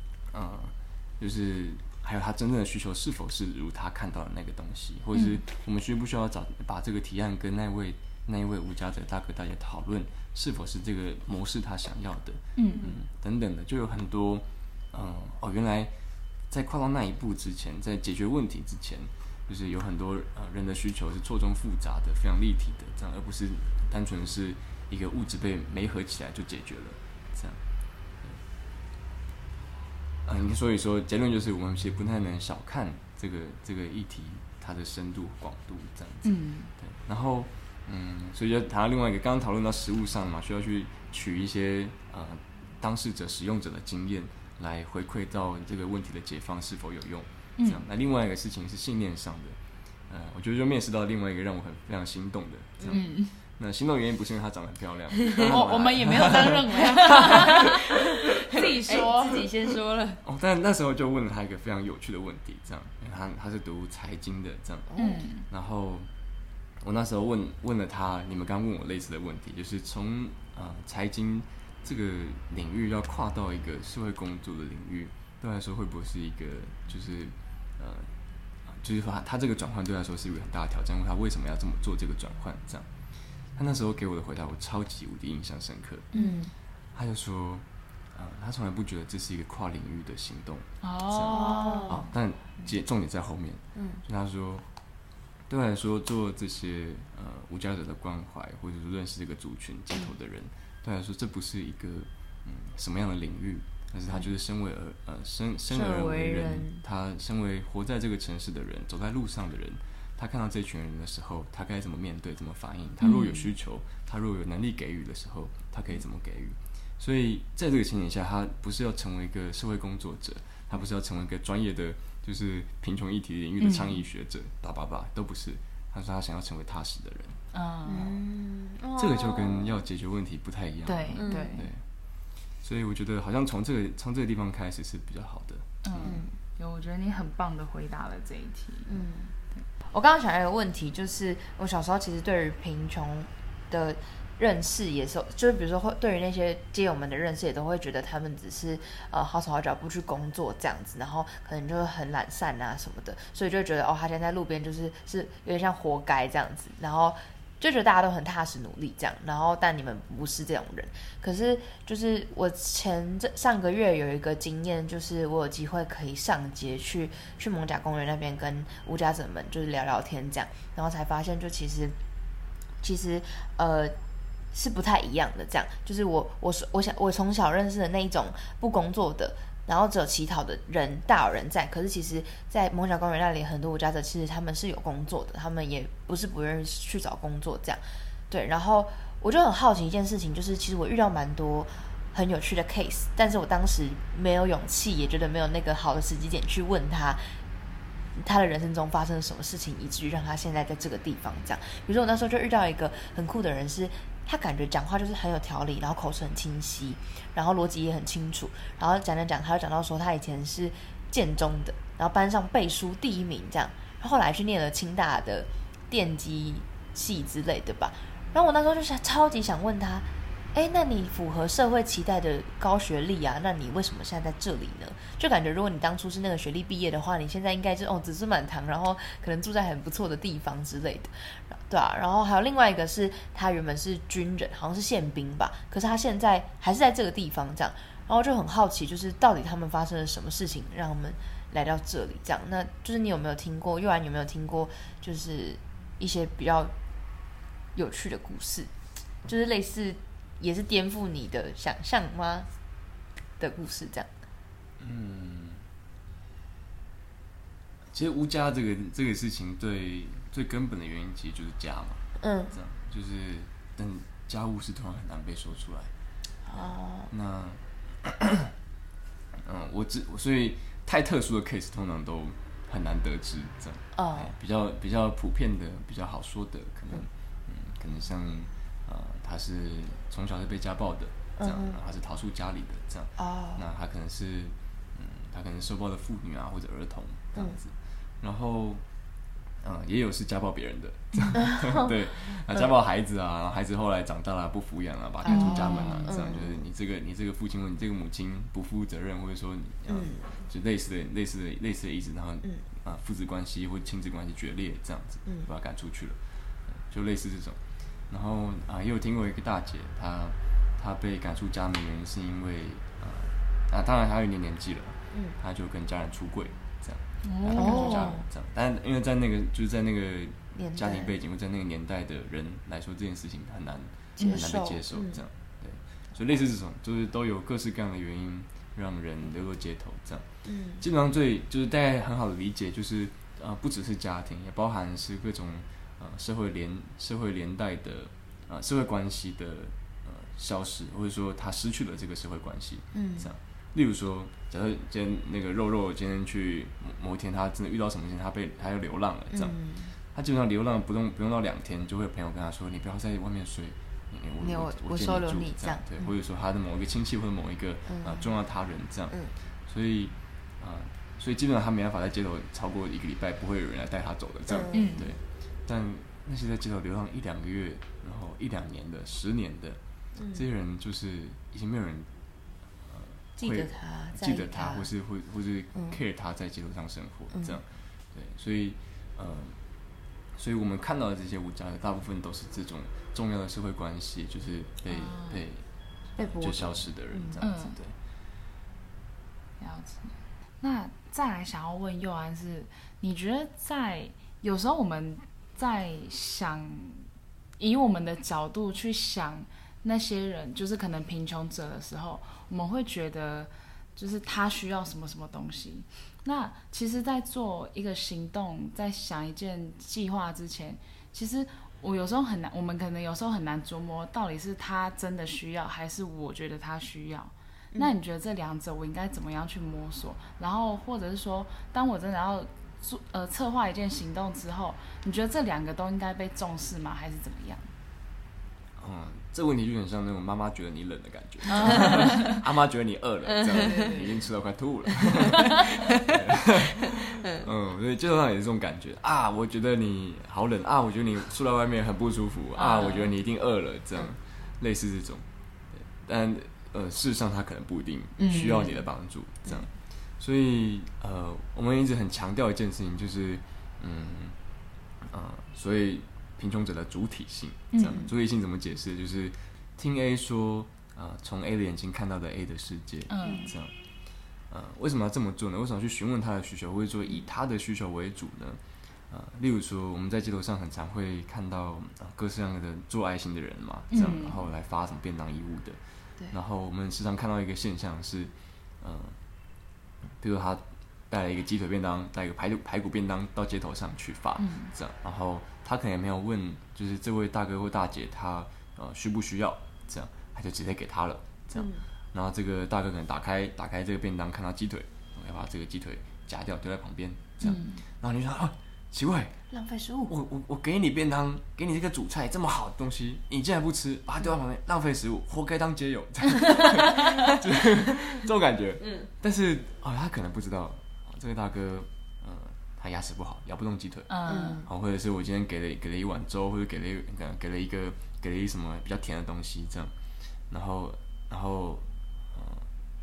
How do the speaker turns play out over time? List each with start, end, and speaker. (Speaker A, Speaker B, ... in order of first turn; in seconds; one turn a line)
Speaker A: 0.3-15.9
Speaker B: 5.1-5.4
Speaker B: 12.6-12.8
Speaker C: 12.7-13.0
Speaker A: 16.5-27.6
Speaker A: 30.2-49.6
Speaker B: 36.2-36.7
Speaker B: 47.6-47.8
Speaker A: 50.1-57.6
Speaker B: 52.9-53.4
Speaker B: 55.4-59.5
Speaker C: 56.7-57.6
Speaker C: 58.5-60.2
Speaker A: 60.2-64.9
Speaker C: 64.9-65.2
Speaker B: 65.0-65.4
Speaker A: 65.5-66.1
Speaker A: 66.8-78.1
Speaker A: 78.7-82.9
Speaker A: 83.5-86.1
Speaker C: 86.1-86.5
Speaker A: 86.9-94.7
Speaker B: 90.8-92.1
Speaker C: 91.3-92.1
Speaker C: 93.7-94.0
Speaker A: 95.5-127.4
Speaker C: 105.7-106.8
Speaker B: 113.0-113.5
Speaker B: 123.6-124.0
Speaker B: 127.5-128.1
Speaker C: 127.9-129.8
Speaker A: 129.0-131.8
Speaker B: 130.9-131.7
Speaker C: 131.2-131.6
Speaker A: 132.4-136.2
Speaker B: 135.8-138.9
Speaker C: 136.0-136.4
Speaker C: 138.9-139.3
Speaker C: 139.9-171.9
Speaker C: 172.8-173.9
Speaker C: 174.5-197.4
Speaker C: 198.2-246.7
Speaker C: 247.7-248.7
Speaker C: 249.2-252.5
Speaker C: 253.4-254.1
Speaker A: 254.8-255.7
Speaker A: 257.9-265.9
Speaker C: 262.2-262.5
Speaker C: 266.5-267.1
Speaker A: 266.5-268.5
Speaker A: 269.4-288.8
Speaker C: 273.9-274.3
Speaker C: 281.4-281.8
Speaker C: 283.2-283.6
Speaker A: 289.6-306.2
Speaker B: 291.1-291.4
Speaker C: 291.3-291.9
Speaker B: 295.2-296.4
Speaker C: 295.2-296.7
Speaker C: 299.9-300.4
Speaker A: 306.7-330.2
Speaker B: 317.2-318.1
Speaker C: 317.5-318.2
Speaker C: 320.5-321.1
Speaker C: 324.2-325.2
Speaker C: 330.4-330.9
Speaker A: 330.8-349.6
Speaker C: 342.9-343.3
Speaker C: 349.3-349.9
Speaker A: 350.1-369.8
Speaker C: 354.4-356.1
Speaker C: 357.9-358.3
Speaker C: 364.5-365.0
Speaker B: 364.7-365.1
Speaker C: 370.1-370.4
Speaker A: 370.3-372.1
Speaker A: 372.9-379.6
Speaker C: 373.4-374.9
Speaker C: 375.7-376.0
Speaker C: 377.3-377.6
Speaker A: 380.4-387.9
Speaker B: 384.9-385.4
Speaker C: 386.2-387.4
Speaker B: 387.4-387.8
Speaker B: 389.6-397.1
Speaker B: 397.6-427.7
Speaker A: 428.8-454.4
Speaker B: 431.5-432.4
Speaker C: 431.7-432.3
Speaker C: 433.3-433.9
Speaker B: 433.5-434.2
Speaker B: 442.5-443.1
Speaker B: 448.2-448.7
Speaker C: 448.2-448.8
Speaker A: 455.1-463.7
Speaker B: 457.7-458.0
Speaker B: 463.1-463.5
Speaker C: 463.2-463.5
Speaker A: 464.5-479.2
Speaker B: 473.9-474.4
Speaker A: 480.2-499.4
Speaker B: 484.4-484.7
Speaker C: 491.5-491.8
Speaker B: 497.4-497.8
Speaker C: 499.5-500.1
Speaker A: 500.1-519.9
Speaker C: 508.8-509.1
Speaker B: 514.1-514.6
Speaker C: 514.3-514.7
Speaker A: 520.5-522.7